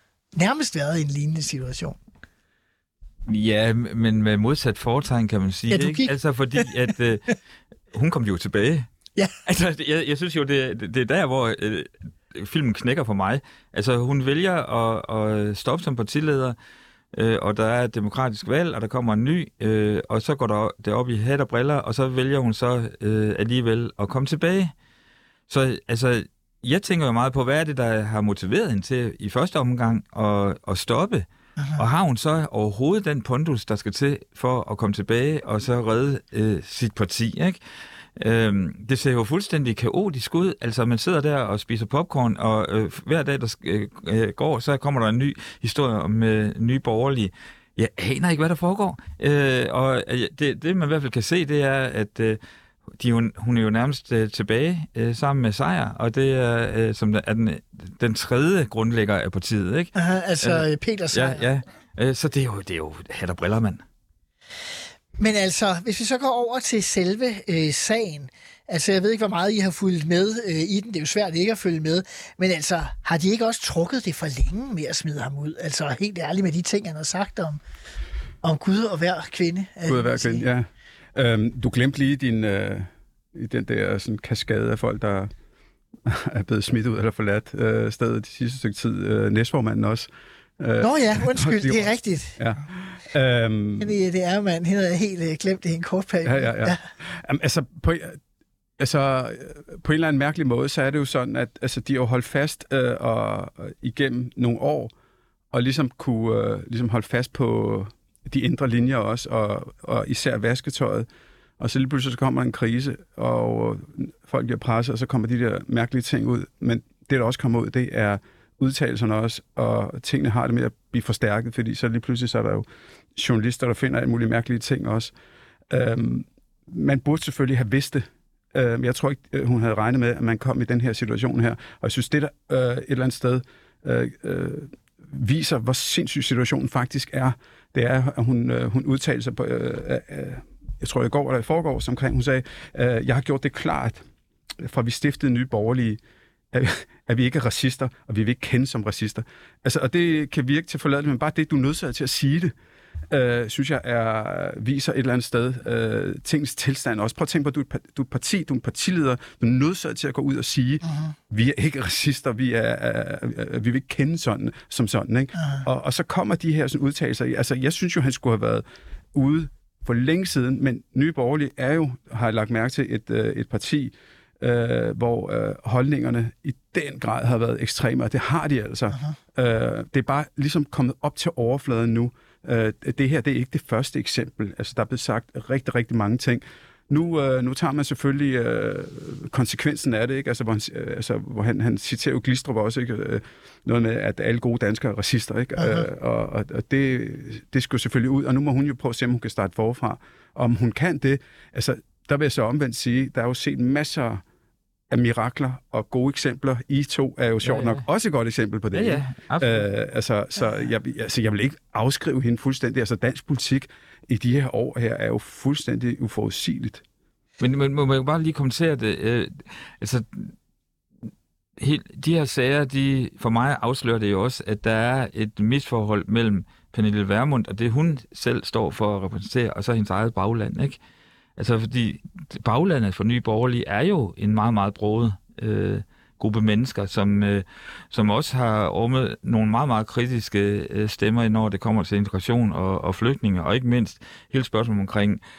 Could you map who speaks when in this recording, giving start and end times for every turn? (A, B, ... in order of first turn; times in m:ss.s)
0:00.3-0:02.0 A
0:03.3-0:07.3 B
0:05.7-0:06.6 A
0:07.9-0:08.9 B
0:09.4-0:16.6 B
0:17.1-0:24.7 B
0:25.5-0:31.2 B
0:31.6-0:31.8 A
0:31.8-0:37.6 B
0:38.2-0:52.4 B
0:53.0-1:03.8 B
1:00.0-1:01.4 A
1:05.2-1:17.6 A
1:18.4-1:20.5 A
1:19.8-1:25.3 C
1:26.0-1:33.9 C
1:30.8-1:32.4 A
1:33.8-1:36.8 A
1:36.2-1:38.2 C
1:38.8-1:44.9 C
1:45.5-1:51.1 C
1:51.6-2:05.1 C
2:05.7-2:24.0 C
2:24.6-2:26.0 C
2:26.5-2:32.5 C
2:33.1-3:24.2 C
2:40.8-2:41.1 A
2:45.4-2:45.6 A
3:15.6-3:15.8 A
3:24.9-3:36.8 C
3:27.4-3:27.8 B
3:28.7-3:29.6 B
3:37.4-3:40.3 B
3:41.6-3:50.8 B
3:51.4-4:05.2 B